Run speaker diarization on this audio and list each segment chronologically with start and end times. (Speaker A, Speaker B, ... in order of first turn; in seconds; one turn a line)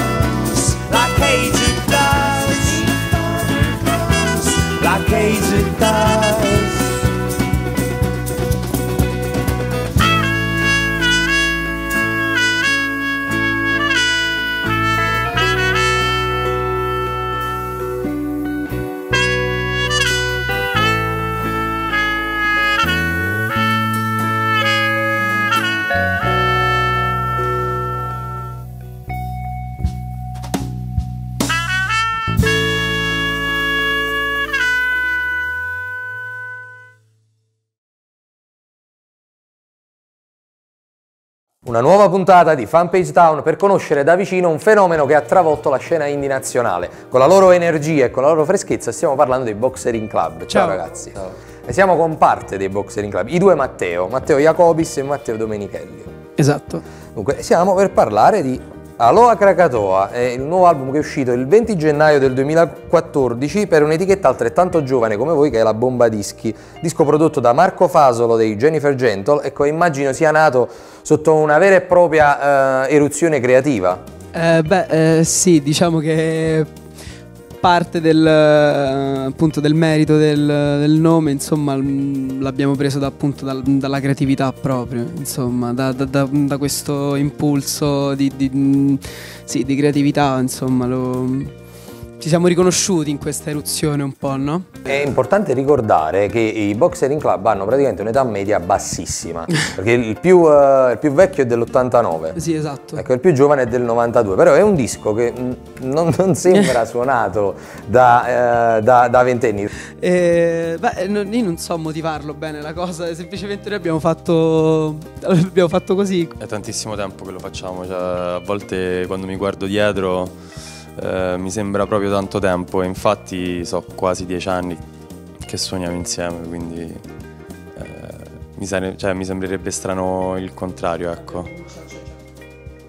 Speaker A: 0.5-7.1
Speaker B: 41.6-56.1
Speaker C: 50.5-50.8
Speaker C: 56.4-56.8
Speaker B: 57.1-74.0
Speaker C: 74.3-76.7
Speaker C: 77.6-91.5
Speaker C: 92.2-94.8
Speaker B: 94.8-102.4
Speaker C: 102.3-103.0
Speaker B: 103.0-109.7
Speaker C: 110.0-116.4
Speaker D: 116.4-120.3
Speaker D: 121.0-124.8
Speaker D: 125.4-127.0
Speaker D: 127.8-131.5
Speaker C: 131.5-132.0